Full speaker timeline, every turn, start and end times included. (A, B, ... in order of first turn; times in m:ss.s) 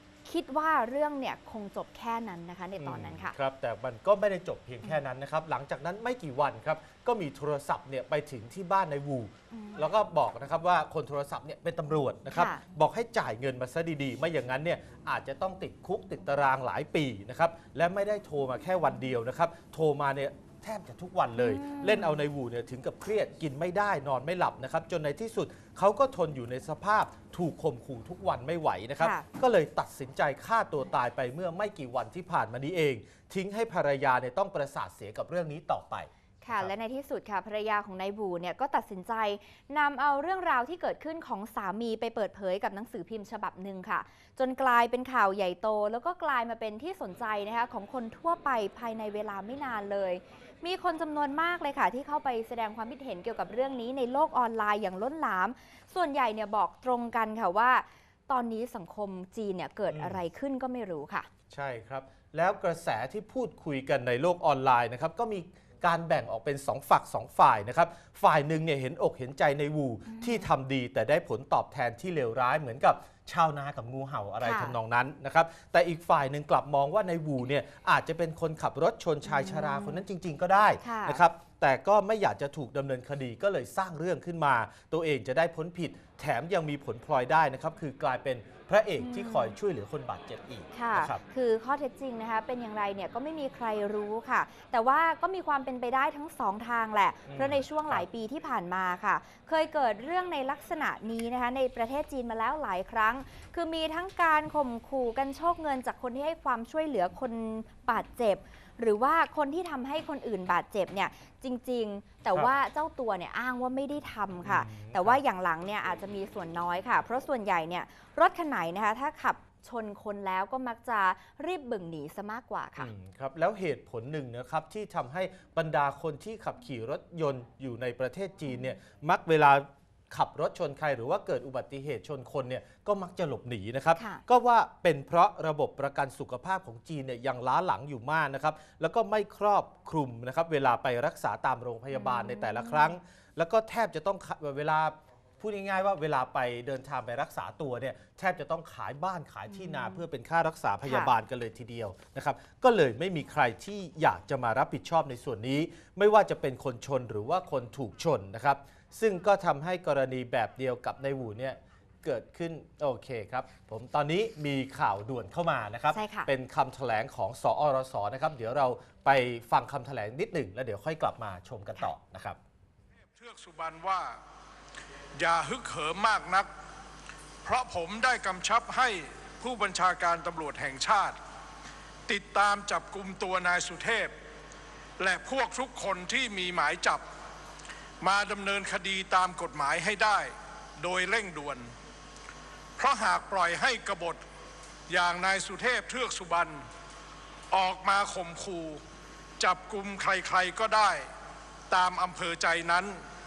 0:00.2-0:03.4 A
0:02.8-0:36.7 B
0:09.5-0:09.9 A
0:12.3-0:12.6 A
0:21.4-0:22.2 A
0:29.0-0:29.3 A
0:36.4-1:01.3 A
0:59.9-1:00.2 B
1:01.5-1:31.2 B
1:10.1-1:10.5 A
1:14.4-1:14.8 A
1:19.3-1:20.0 A
1:20.8-1:21.2 A
1:29.0-1:29.6 A
1:30.7-2:02.9 A
1:37.3-1:38.1 B
1:54.4-1:55.2 B
2:02.8-2:52.4 B
2:14.0-2:14.2 A
2:21.9-2:22.9 A
2:29.5-2:30.0 A
2:30.8-2:31.1 A
2:45.9-2:46.3 A
2:53.2-2:54.2 C
2:55.2-2:56.5 C
2:57.4-3:01.2 C
3:02.1-3:04.1 C
3:05.0-3:07.0 C
3:08.0-3:11.7 C
3:12.8-3:14.2 C
3:14.9-3:16.6 C
3:17.5-3:18.8 C
3:19.4-3:21.1 C
3:21.7-3:23.0 C